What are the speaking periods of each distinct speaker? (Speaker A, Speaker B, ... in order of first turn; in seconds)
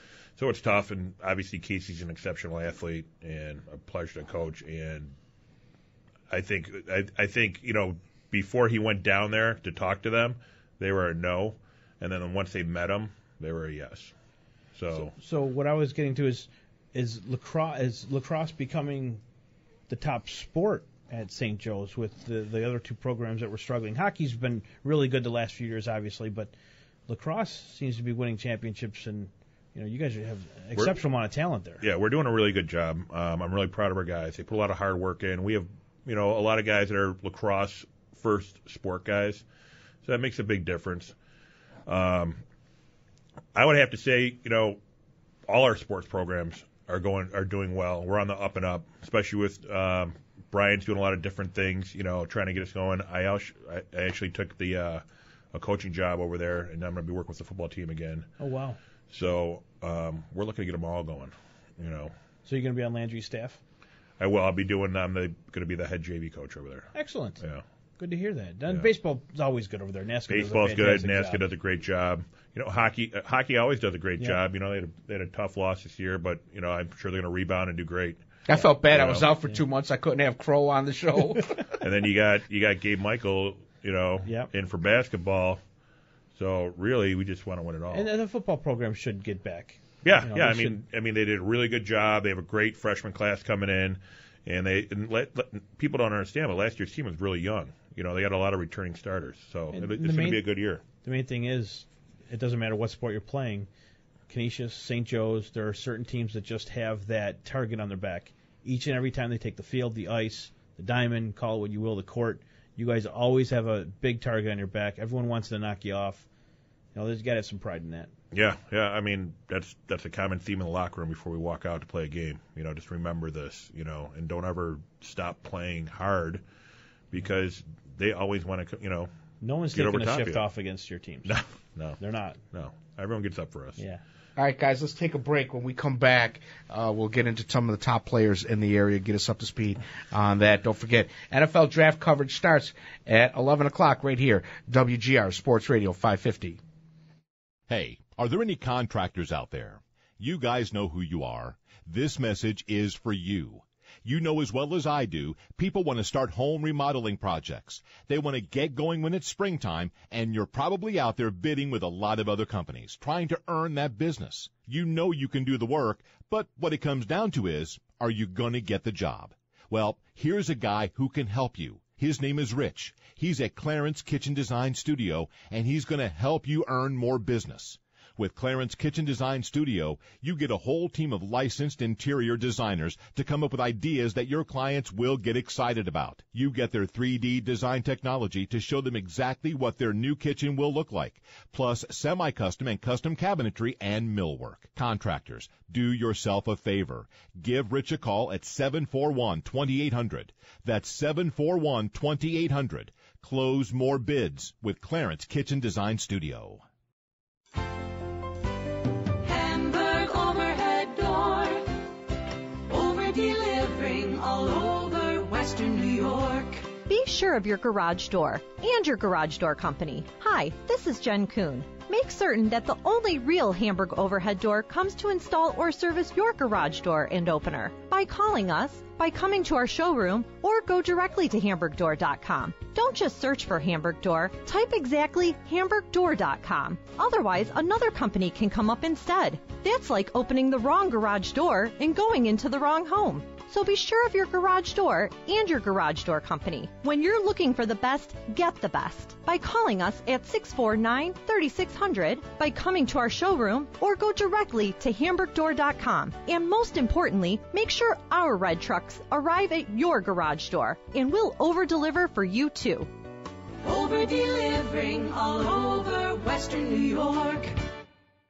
Speaker A: 0.4-5.1, 6.3-14.1, 14.8-15.1, 31.8-39.4, 40.0-41.1, 41.9-42.4, 43.5-44.8, 45.5-55.0, 55.5-58.3, 59.1-62.1, 64.2-67.6, 70.3-78.2, 78.9-79.3, 81.8-85.6, 86.3-88.1, 90.0-100.8, 118.3-126.4, 127.1-129.1, 129.7-130.4, 131.3-132.0, 132.5-133.8
Speaker B: 14.9-19.2, 19.9-26.5, 27.1-31.8, 58.4-58.8, 62.5-63.6, 66.9-67.4, 68.0-71.4, 87.9-90.8, 99.7-100.5, 101.0-103.7, 104.3-116.3, 117.0-118.1, 129.4-131.3, 132.0-132.4, 133.8-134.0
Speaker C: 78.5-81.6, 134.4-146.6
Speaker D: 147.7-206.6
Speaker E: 209.2-211.7, 212.7-216.7, 263.6-267.5
Speaker F: 216.9-262.9